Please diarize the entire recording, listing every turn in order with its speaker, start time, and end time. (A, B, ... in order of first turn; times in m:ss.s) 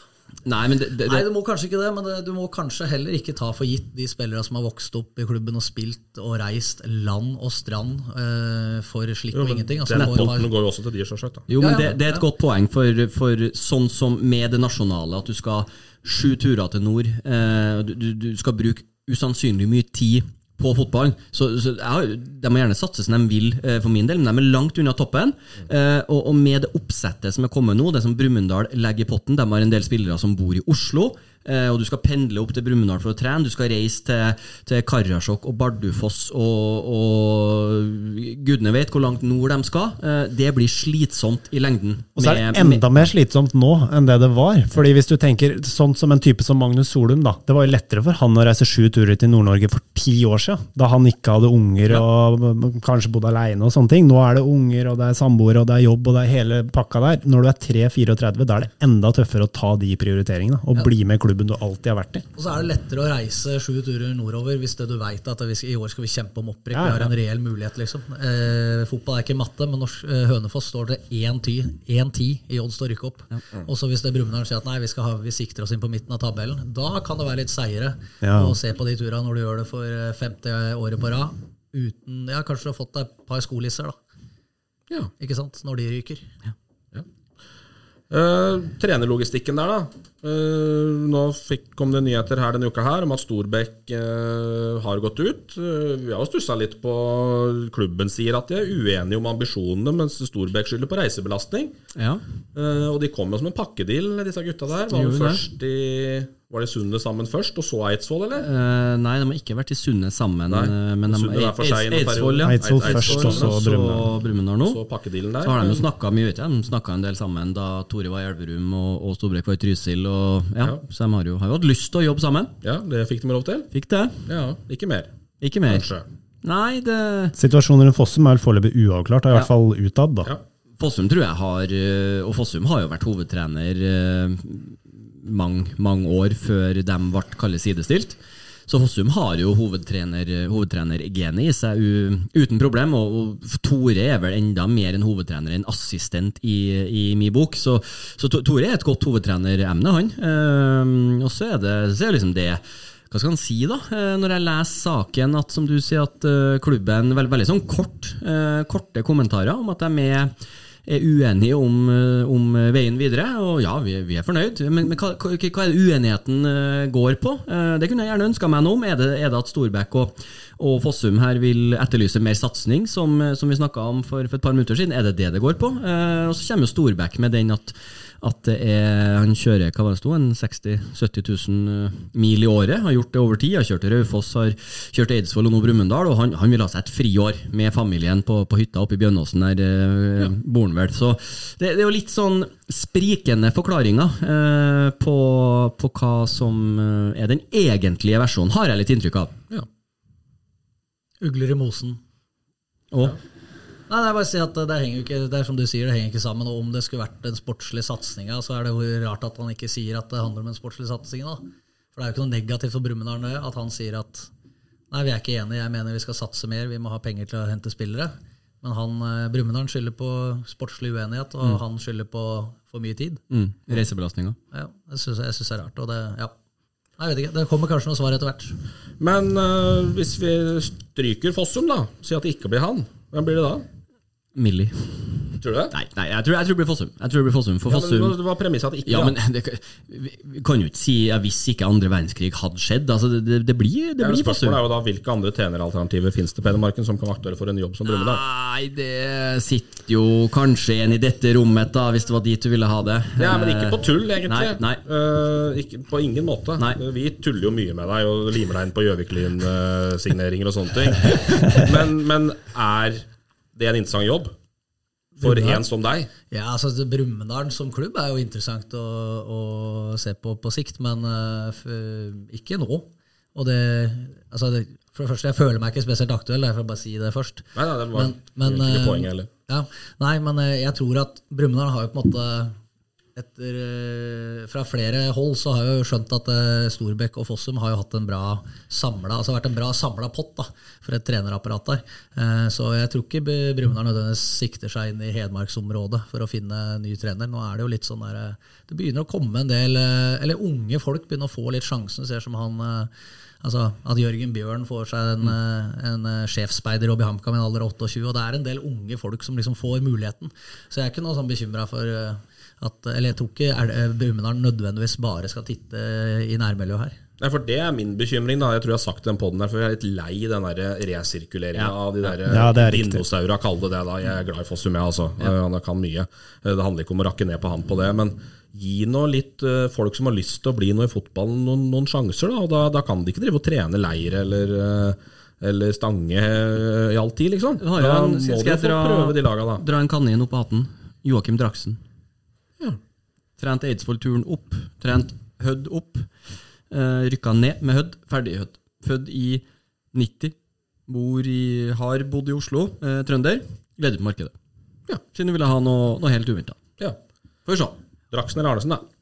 0:00.4-0:01.2 A
0:01.0-0:10.5 B
0:09.3-0:11.5 C
0:09.9-0:10.3 A
0:11.5-0:43.0 A
0:11.6-0:12.2 B
0:42.2-1:02.2 D
1:02.3-1:24.0 B
1:06.7-1:07.1 D
1:18.2-1:18.6 D
1:25.2-1:26.3 B
1:28.1-1:41.7 C
1:42.0-1:42.2 A
1:42.5-1:48.5 C
1:44.9-1:45.4 A
1:48.4-1:54.8 A
1:50.5-1:53.6 C
1:52.4-1:54.1 D
1:54.7-1:55.9 C
1:55.4-2:02.5 A
2:02.6-2:03.7 C
2:03.7-2:04.2 A
2:04.3-2:05.1 C
2:05.4-2:05.9 A
2:05.7-2:06.0 C
2:06.4-2:07.3 A
2:07.4-2:10.3 D
2:10.8-2:40.3 A
2:40.9-3:19.3 A
3:21.2-3:22.0 B
3:22.9-3:23.2 A
3:23.9-3:34.3 B
3:34.9-3:43.2 B
3:43.3-3:44.4 A
3:44.5-3:46.3 B
3:47.0-3:48.6 B
3:49.0-3:53.7 C
3:54.3-3:58.2 A
3:55.4-3:55.7 C
3:57.7-3:59.2 C
3:58.9-4:04.6 A
4:04.0-4:08.2 C
4:07.8-4:14.8 A
4:13.2-4:24.3 C
4:25.2-4:26.1 C
4:26.3-4:42.6 B
4:37.6-4:39.3 C
4:43.2-5:02.9 B
5:03.4-5:17.0 B
5:17.2-5:39.6 C
5:21.5-5:22.1 A
5:22.3-5:23.0 D
5:37.6-5:41.8 A
5:43.4-5:46.1 A
5:46.7-5:50.3 A
5:50.9-5:54.3 A
5:55.1-5:56.6 A
5:57.4-5:57.8 A
5:58.1-5:58.8 C